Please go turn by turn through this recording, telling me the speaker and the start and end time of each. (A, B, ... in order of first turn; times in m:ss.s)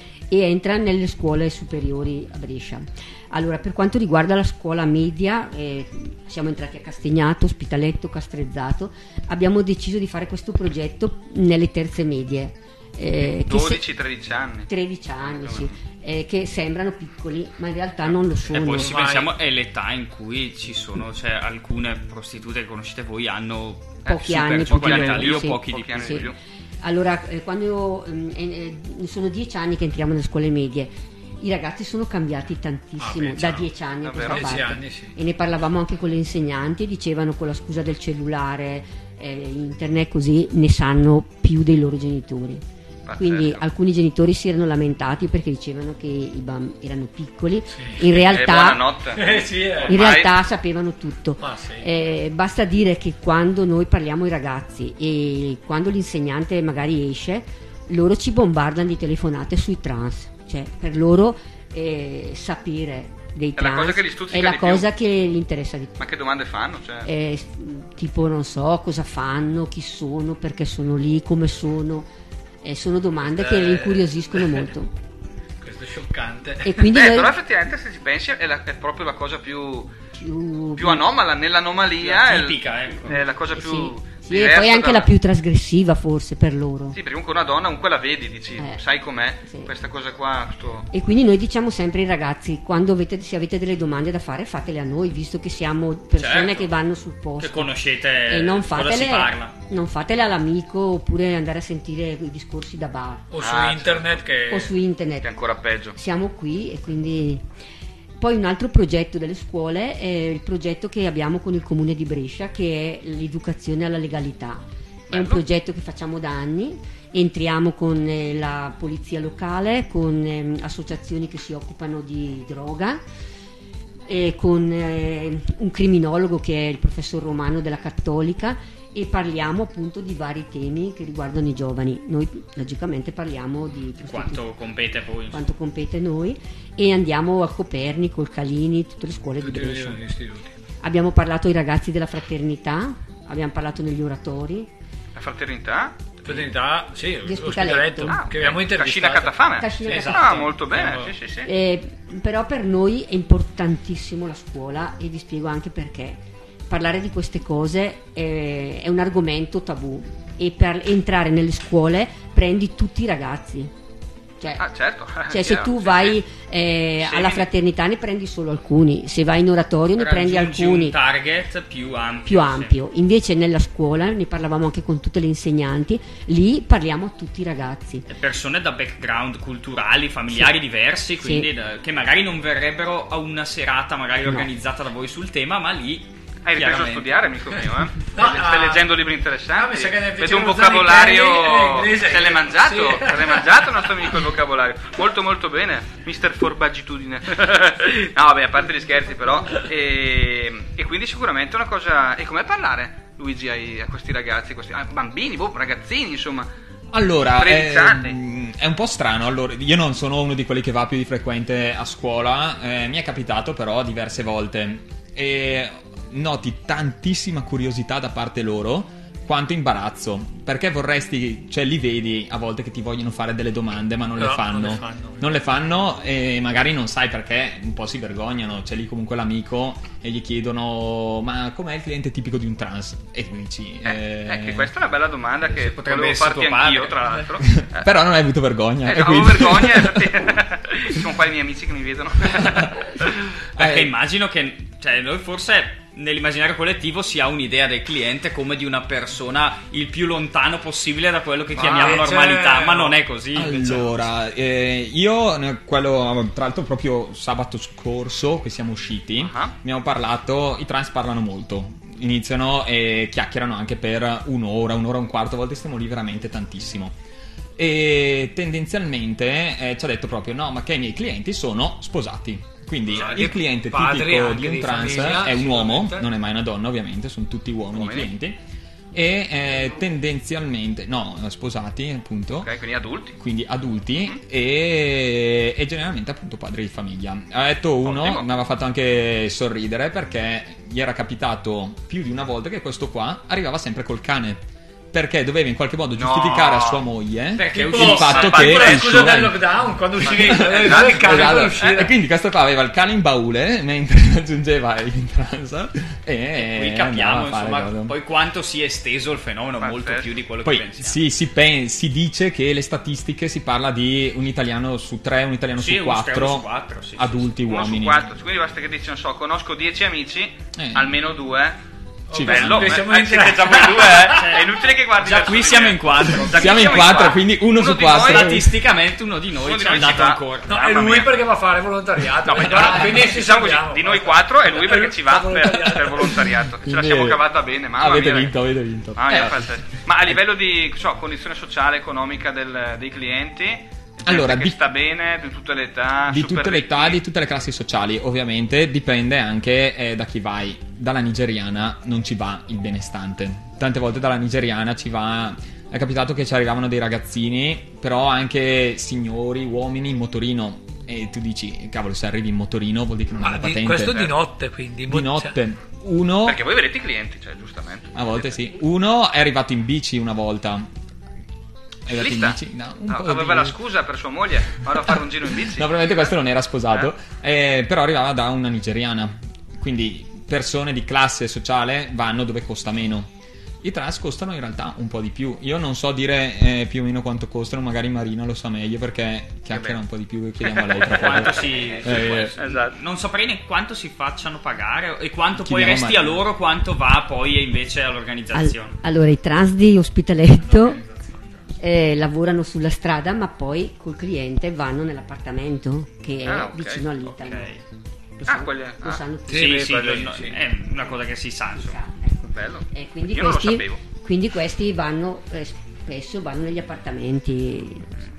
0:00.3-0:13.8 A
0:13.2-0:14.7 B
0:14.7-0:19.0 A
0:15.2-0:15.7 B
0:18.1-0:19.3 C
0:18.5-0:26.3 D
0:24.1-0:26.4 B
0:24.1-0:42.6 A
0:33.0-0:35.1 C
0:34.0-0:34.6 B
0:43.1-0:43.6 B
0:43.2-0:48.8 A
0:47.7-0:48.0 C
0:48.3-0:50.3 B
0:49.1-0:50.0 C
0:49.9-1:06.0 A
0:51.4-0:51.9 C
1:03.6-1:04.9 B
1:06.0-1:07.1 B
1:07.0-1:12.1 A
1:12.6-1:14.9 A
1:13.2-1:14.7 C
1:15.6-1:16.8 C
1:16.6-1:17.3 A
1:16.9-1:19.9 B
1:20.1-1:21.0 A
1:20.8-1:25.1 B
1:22.1-1:23.2 D
1:23.1-1:27.0 A
1:26.9-1:30.9 B
1:29.4-1:29.7 A
1:30.9-1:37.7 A
1:36.2-1:36.7 D
1:37.4-1:39.5 D
1:38.3-1:43.3 A
1:43.3-1:44.7 C
1:43.4-1:44.2 B
1:44.5-1:45.3 A
1:45.2-1:46.0 B
1:46.0-1:47.4 A
1:48.2-2:03.0 A
1:55.1-1:55.4 B
2:04.1-2:14.5 A
2:14.0-2:15.4 D
2:15.3-2:20.0 A
2:19.4-2:20.5 C
2:20.8-2:24.7 A
2:25.2-2:26.5 B
2:26.2-2:31.2 C
2:27.2-2:28.2 A
2:28.1-2:31.5 B
2:29.6-2:30.5 A
2:31.4-2:43.7 A
2:44.6-2:46.2 B
2:45.3-2:51.0 A
2:47.0-2:47.5 B
2:50.0-2:52.8 D
2:52.2-2:58.0 A
2:58.1-3:07.1 D
3:01.2-3:01.5 A
3:06.4-3:26.5 B
3:08.1-3:08.9 C
3:09.5-3:13.7 C
3:26.9-3:54.7 E
3:27.3-3:28.2 B
3:44.2-3:45.2 C
3:53.8-3:57.9 B
3:55.4-3:57.0 D
3:57.4-4:00.1 E
3:58.8-4:03.2 B
4:02.4-4:02.7 E
4:03.6-4:13.8 D
4:03.6-4:03.9 E
4:11.6-4:13.0 C
4:11.6-4:12.1 B
4:13.4-4:26.9 E
4:19.2-4:19.5 B
4:27.6-4:38.4 E
4:32.9-4:36.1 C
4:37.7-4:38.1 B
4:38.9-4:42.5 E
4:42.4-4:43.2 B
4:43.2-4:59.4 E
4:47.8-4:48.3 B
4:56.0-4:56.9 B
4:57.4-4:59.2 D
4:57.5-5:01.9 C
4:58.1-4:59.1 B
5:00.0-5:01.9 B
5:00.1-5:08.0 E
5:06.4-5:11.0 D
5:09.6-5:10.1 B
5:10.4-5:18.0 E
5:15.6-5:17.4 D
5:17.5-5:21.6 B
5:20.6-5:20.9 E
5:22.1-5:24.2 C
5:22.1-5:22.8 E
5:22.2-5:28.4 B
5:24.1-5:27.2 D
5:26.3-5:28.5 E
5:27.8-5:30.5 D
5:29.4-5:31.2 B
5:30.5-5:36.3 C
5:32.3-5:32.9 E
5:32.4-5:38.4 B
5:35.5-5:39.5 E
5:39.0-5:47.0 B
5:44.0-5:44.6 E
5:46.1-6:04.0 E
6:03.2-6:05.4 C
6:04.9-6:06.4 E
6:06.2-6:08.4 B
6:08.0-6:10.7 E
6:11.9-6:13.6 E
6:11.9-6:16.1 B
6:15.5-6:23.1 E
6:23.6-6:32.3 E
6:29.5-6:29.8 B
6:30.4-6:32.8 B
6:30.8-6:38.8 D
6:35.4-6:36.2 E
6:38.3-6:40.8 A
6:41.6-6:47.5 A
6:46.2-6:46.8 B
6:47.0-6:47.6 D
6:48.2-6:49.7 A
6:48.3-6:49.0 B
6:49.3-6:50.4 C
6:49.3-6:51.8 D
6:51.6-6:58.0 A
6:52.3-6:53.8 B